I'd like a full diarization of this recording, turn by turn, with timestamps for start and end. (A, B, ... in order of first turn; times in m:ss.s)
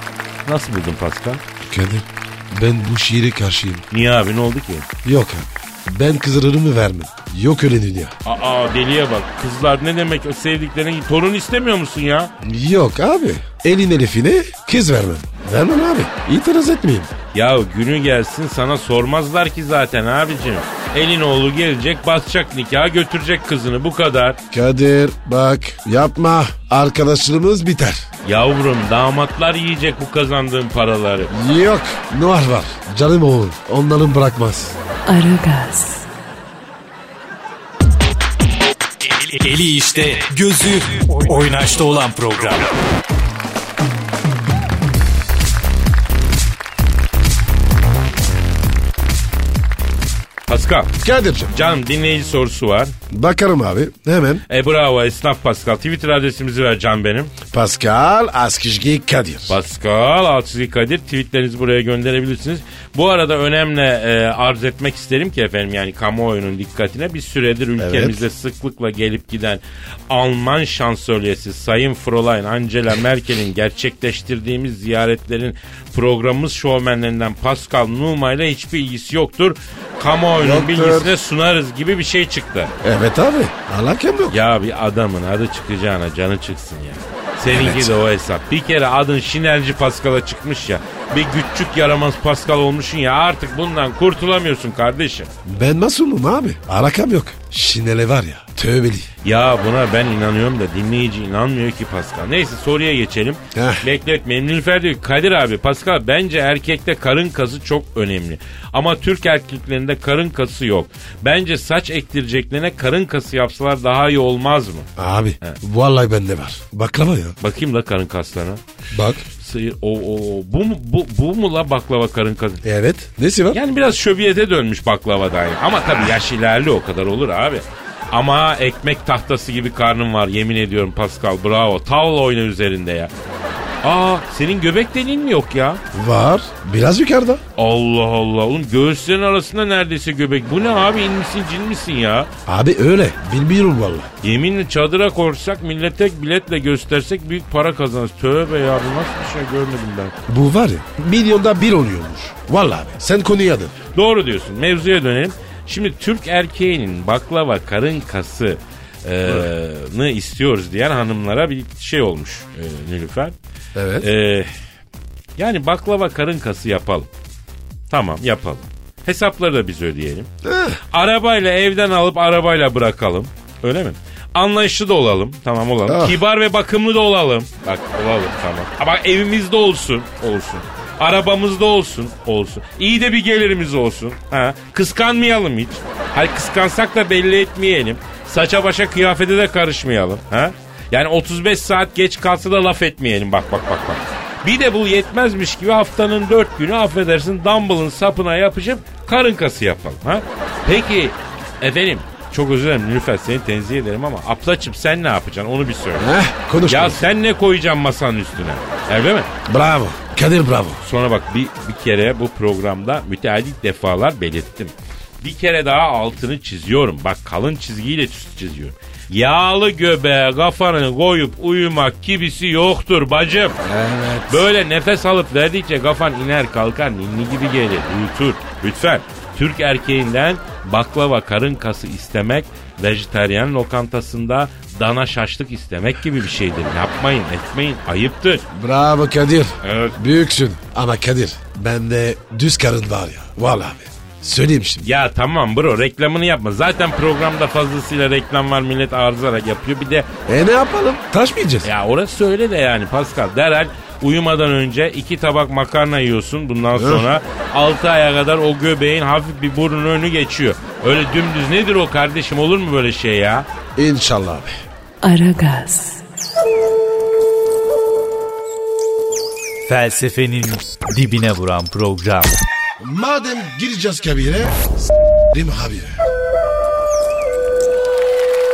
0:00.4-0:01.4 A
0:01.6-0:03.8 B
0:03.9-0:04.9 A
0:05.0-0:08.1 B
0:08.2-0:12.3 A
0:12.4-0:17.1 B
0:17.3-0:24.4 A
0:24.5-0:28.1 B
0:28.2-0:31.3 A
0:31.3-0:34.8 B
0:35.1-0:36.1 C
0:39.0-0:42.7 D
0:50.5-0:50.9 A
0:51.0-0:51.5 B
0:51.5-0:52.9 A
0:53.1-0:54.4 B
0:54.5-0:57.3 A
0:57.5-0:59.6 B
0:59.5-1:22.7 A
1:07.8-1:08.2 B
1:20.4-1:21.2 B
1:22.8-1:24.4 B
1:24.3-1:35.3 A
1:27.5-1:28.0 B
1:35.4-1:39.1 B
1:39.2-1:54.9 A
1:43.5-1:43.9 B
1:55.0-1:57.4 B
1:57.4-1:58.6 A
1:58.9-1:59.2 B
1:59.4-2:02.6 A
2:02.6-2:03.6 B
2:03.5-2:13.1 A
2:13.8-2:15.8 A
2:15.9-2:17.4 B
2:17.6-2:22.3 A
2:22.5-2:24.1 B
2:24.2-2:30.2 A
2:30.3-2:33.7 B
2:34.0-2:43.4 A
2:43.8-2:44.1 B
2:44.0-2:44.5 A
2:45.4-2:47.1 A
2:47.9-2:50.3 A
2:50.4-2:50.8 B
2:50.9-3:26.1 A
2:55.9-2:56.2 B
3:26.0-3:27.0 B
3:26.7-3:29.3 A
3:29.5-3:30.8 B
3:30.8-3:43.6 A
3:43.6-3:44.5 B
3:44.3-3:58.4 A
3:58.5-4:04.9 B
3:59.6-4:00.0 A
4:04.8-4:10.1 A
4:10.3-4:11.7 B
4:11.6-4:23.5 A
4:16.7-4:17.1 B
4:23.8-4:24.6 B
4:25.0-4:26.0 C
4:29.7-4:32.4 D
4:32.8-4:34.7 B
4:35.3-4:36.0 B